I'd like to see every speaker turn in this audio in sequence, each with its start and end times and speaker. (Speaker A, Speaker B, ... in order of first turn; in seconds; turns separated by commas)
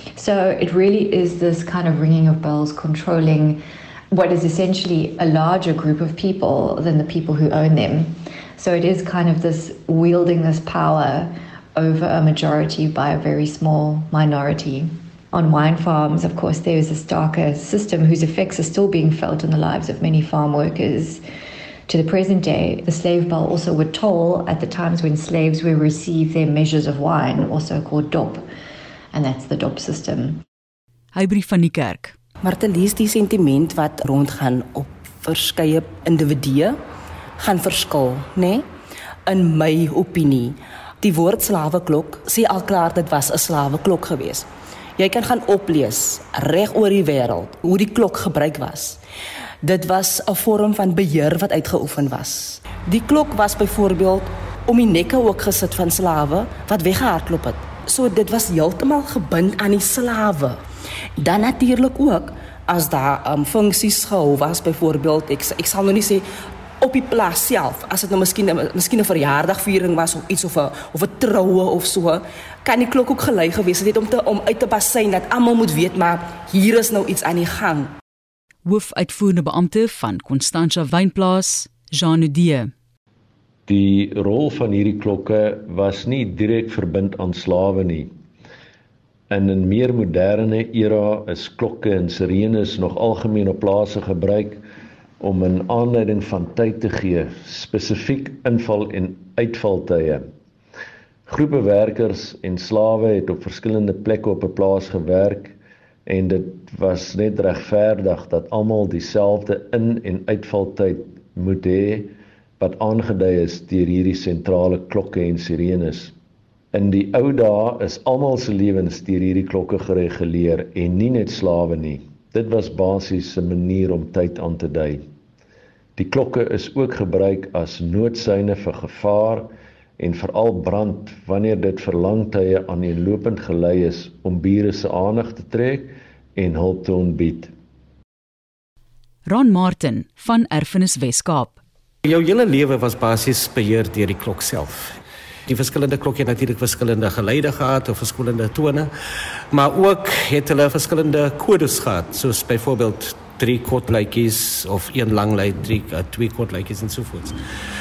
Speaker A: 0.1-21.2, Speaker A: 21.9-28.4, Speaker A: 29.1-30.4, Speaker B: 31.1-32.1, Speaker C: 32.4-36.8, Speaker C: 37.4-38.7, Speaker C: 39.2-49.0, Speaker C: 49.6-60.6, Speaker C: 61.2-66.3, Speaker C: 66.8-77.9, Speaker B: 78.6-82.7, Speaker D: 83.7-88.1, Speaker D: 89.3-94.6, Speaker D: 95.2-100.3, Speaker D: 101.3-116.1, Speaker D: 116.7-125.0, Speaker D: 126.0-137.5, Speaker B: 139.3-141.6, Speaker E: 142.0-148.9, Speaker E: 149.5-157.4